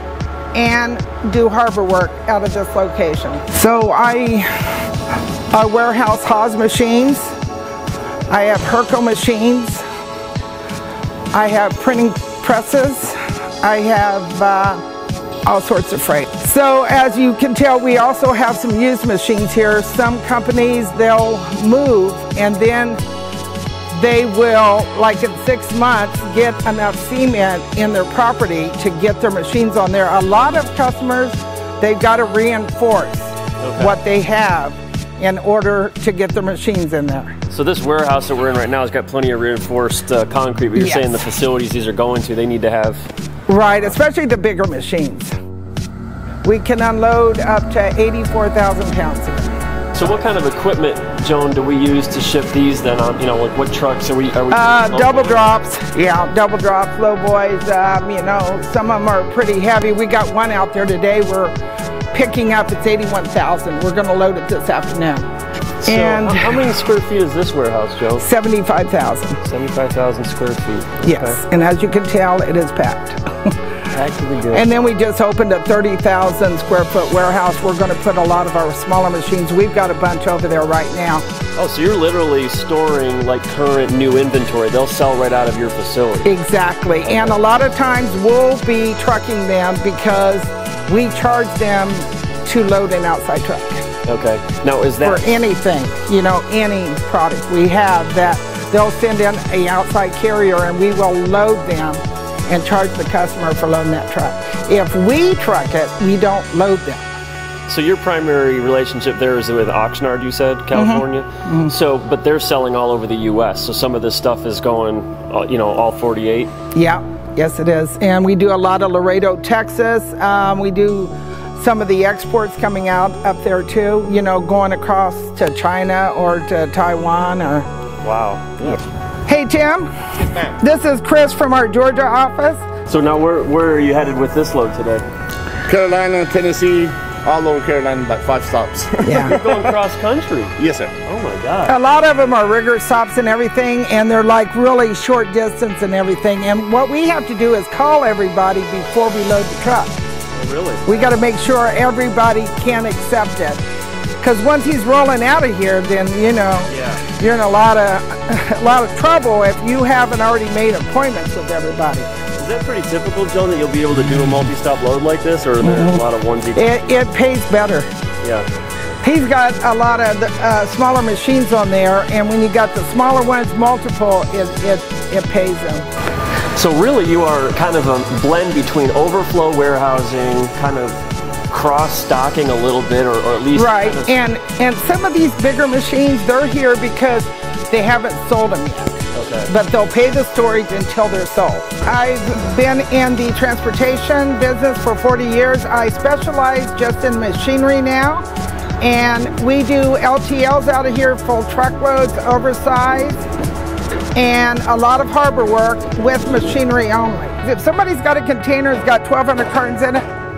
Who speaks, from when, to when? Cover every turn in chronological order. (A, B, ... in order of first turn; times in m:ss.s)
0:00.5-0:04.5 A
0:05.5-0:07.4 A
0:08.3-0:09.8 A
0:11.3-0:14.8 A
0:15.4-0:23.0 A
0:23.9-0:37.4 A
0:33.6-0:33.9 B
0:37.5-0:43.1 B
0:40.8-0:41.2 A
0:43.5-0:45.3 A
0:46.4-0:49.6 A
0:50.0-0:55.4 B
0:54.5-1:01.5 A
1:02.1-1:05.2 A
1:05.8-1:08.2 B
1:05.8-1:06.7 A
1:08.2-1:09.4 A
1:09.4-1:11.4 B
1:11.0-1:13.5 A
1:13.9-1:14.7 B
1:14.5-1:21.2 A
1:21.6-1:26.3 B
1:26.2-1:33.9 A
1:27.0-1:27.4 B
1:34.0-1:35.2 B
1:35.0-1:47.1 A
1:47.7-1:56.5 B
1:50.7-1:51.7 A
1:56.7-2:07.7 A
2:08.0-2:08.8 B
2:08.6-2:12.7 A
2:12.9-2:15.0 B
2:15.7-2:19.6 C
2:19.0-2:19.4 A
2:19.1-2:21.8 B
2:20.6-2:20.9 C
2:21.7-2:30.0 A
2:30.4-2:31.0 B
2:30.9-2:33.6 A
2:34.2-2:42.1 A
2:36.7-2:37.0 B
2:42.4-2:47.0 B
2:45.6-2:46.0 A
2:46.6-2:47.9 A
2:48.2-2:48.5 B
2:49.0-2:55.9 A
2:56.6-3:04.1 B
3:03.5-3:18.2 A
3:09.1-3:09.5 B
3:18.8-3:23.3 A
3:24.2-3:30.0 A